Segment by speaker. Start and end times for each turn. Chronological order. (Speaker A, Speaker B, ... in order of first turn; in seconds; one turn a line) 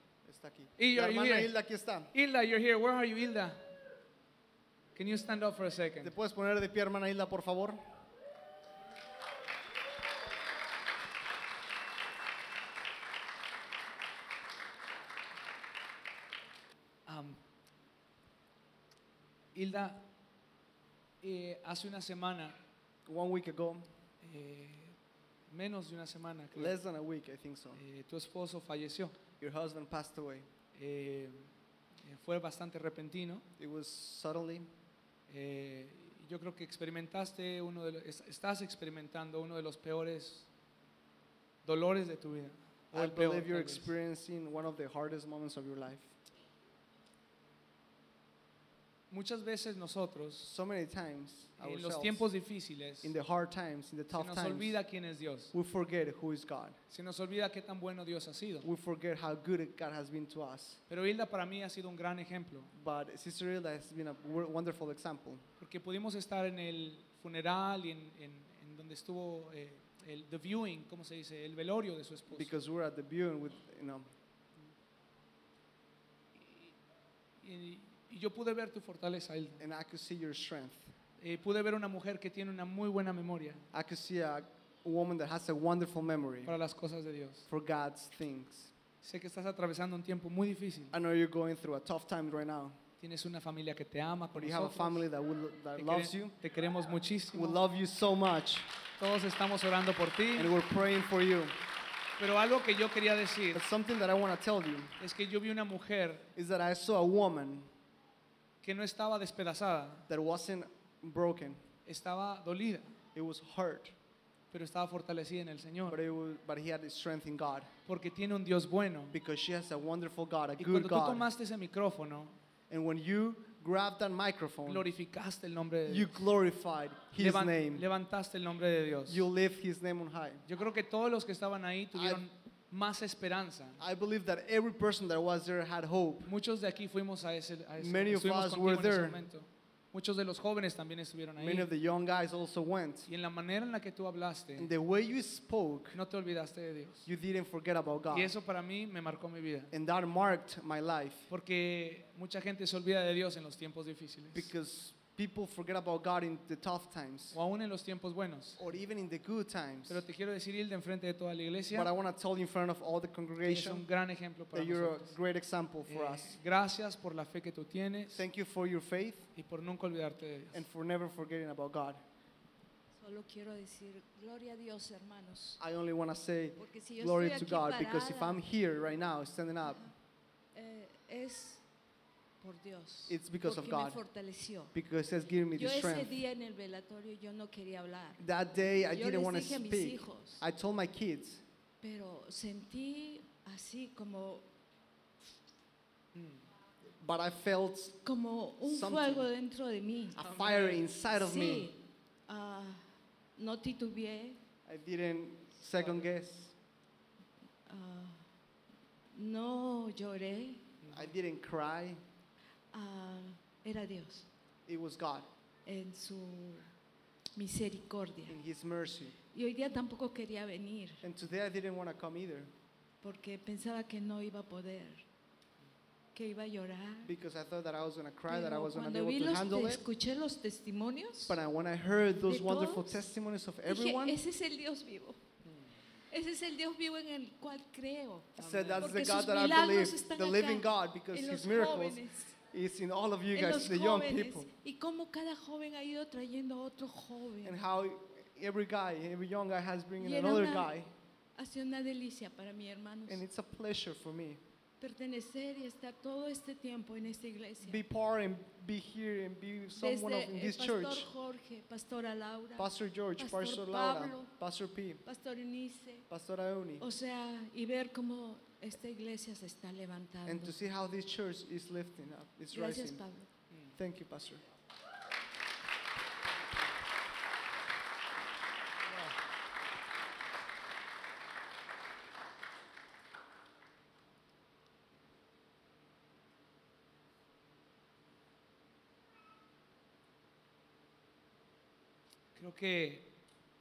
Speaker A: 0.2-2.1
Speaker B: 0.8-1.5
Speaker B: 2.1-3.6
Speaker B: 5.0-6.1
Speaker A: 6.0-7.8
Speaker B: 17.1-17.4
Speaker B: 19.5-20.1
Speaker B: 21.2-22.6
Speaker A: 23.1-23.9
Speaker B: 24.2-24.9
Speaker B: 25.5-26.8
Speaker A: 26.5-27.8
Speaker B: 27.8-29.2
Speaker A: 29.4-30.5
Speaker B: 30.7-31.5
Speaker B: 32.0-33.4
Speaker A: 33.6-34.7
Speaker B: 35.3-40.5
Speaker B: 41.6-43.9
Speaker A: 42.9-46.1
Speaker B: 49.1-50.5
Speaker A: 50.4-52.2
Speaker B: 51.6-53.1
Speaker A: 53.0-54.8
Speaker B: 54.1-55.5
Speaker A: 55.5-56.8
Speaker B: 56.9-58.7
Speaker A: 58.6-60.8
Speaker B: 60.9-62.7
Speaker A: 62.7-65.4
Speaker B: 65.6-72.5
Speaker A: 72.3-74.0
Speaker B: 76.4-76.7
Speaker B: 77.4-79.6
Speaker A: 79.6-80.9
Speaker B: 81.2-83.6
Speaker A: 83.7-86.5
Speaker B: 86.4-87.4
Speaker A: 87.5-88.7
Speaker B: 89.0-90.9
Speaker A: 90.9-92.8
Speaker B: 93.0-95.0
Speaker A: 94.3-96.3
Speaker B: 95.8-97.6
Speaker A: 97.3-98.7
Speaker B: 99.0-100.5
Speaker A: 100.3-101.5
Speaker B: 102.2-103.6
Speaker A: 103.5-104.9
Speaker B: 105.0-106.3
Speaker A: 106.3-107.7
Speaker B: 108.6-110.1
Speaker A: 110.1-111.6
Speaker B: 111.8-112.9
Speaker A: 113.1-113.9
Speaker B: 114.5-116.0
Speaker A: 115.9-117.7
Speaker B: 117.8-119.1
Speaker A: 119.1-121.3
Speaker B: 120.6-122.3
Speaker A: 122.7-124.9
Speaker B: 124.7-126.2
Speaker A: 125.9-127.8
Speaker B: 127.2-129.2
Speaker A: 129.1-130.4
Speaker B: 130.4-133.8
Speaker A: 131.9-132.2
Speaker A: 133.8-136.3
Speaker B: 136.2-141.7
Speaker A: 137.8-139.2
Speaker A: 141.4-143.1
Speaker B: 143.1-144.7
Speaker A: 144.6-146.0
Speaker B: 145.9-147.1
Speaker A: 147.1-148.3
Speaker B: 148.1-149.7
Speaker A: 149.7-151.3
Speaker B: 151.3-154.5
Speaker A: 154.3-157.3
Speaker B: 157.3-158.6
Speaker A: 158.6-160.0
Speaker B: 159.9-161.9
Speaker A: 161.7-163.8
Speaker B: 163.4-165.1
Speaker A: 164.5-166.4
Speaker B: 165.9-168.2
Speaker A: 168.1-169.3
Speaker B: 169.3-170.6
Speaker A: 170.5-172.0
Speaker C: 172.9-175.6
Speaker A: 175.6-179.9
Speaker C: 176.6-178.4
Speaker C: 180.5-181.6
Speaker C: 182.4-184.7
Speaker A: 183.1-184.0
Speaker A: 184.7-186.2
Speaker C: 185.6-188.2
Speaker A: 188.2-191.4
Speaker C: 188.9-190.4
Speaker C: 191.8-194.4
Speaker B: 196.1-196.4
Speaker A: 197.0-198.0
Speaker C: 198.0-200.2
Speaker A: 198.6-199.3
Speaker A: 200.1-201.7
Speaker B: 200.2-200.8
Speaker C: 201.1-202.8
Speaker C: 203.3-204.4
Speaker A: 204.7-206.5
Speaker B: 205.8-206.0
Speaker C: 207.7-208.2
Speaker C: 209.1-210.7
Speaker B: 210.8-211.1
Speaker A: 210.9-212.0
Speaker C: 212.7-214.3
Speaker A: 214.7-215.3
Speaker C: 215.7-216.7
Speaker C: 217.3-218.4
Speaker A: 218.3-219.1
Speaker C: 219.3-221.0
Speaker A: 221.0-222.5
Speaker C: 223.0-225.0
Speaker C: 226.1-227.1
Speaker A: 227.0-229.8
Speaker C: 228.3-231.4
Speaker A: 231.3-234.2
Speaker C: 232.2-233.0
Speaker C: 233.7-235.2
Speaker C: 236.1-242.3
Speaker B: 238.4-238.9
Speaker A: 238.4-244.5
Speaker C: 243.3-247.6
Speaker A: 247.4-250.9
Speaker C: 250.0-250.7
Speaker C: 251.3-253.2
Speaker A: 253.1-254.4
Speaker C: 254.8-257.8
Speaker A: 257.6-261.1
Speaker C: 259.8-264.3
Speaker A: 262.6-265.0
Speaker C: 265.0-266.1
Speaker A: 266.1-266.9
Speaker C: 266.8-270.5
Speaker A: 270.2-273.0
Speaker C: 272.5-273.3
Speaker A: 273.8-274.4
Speaker B: 292.4-293.1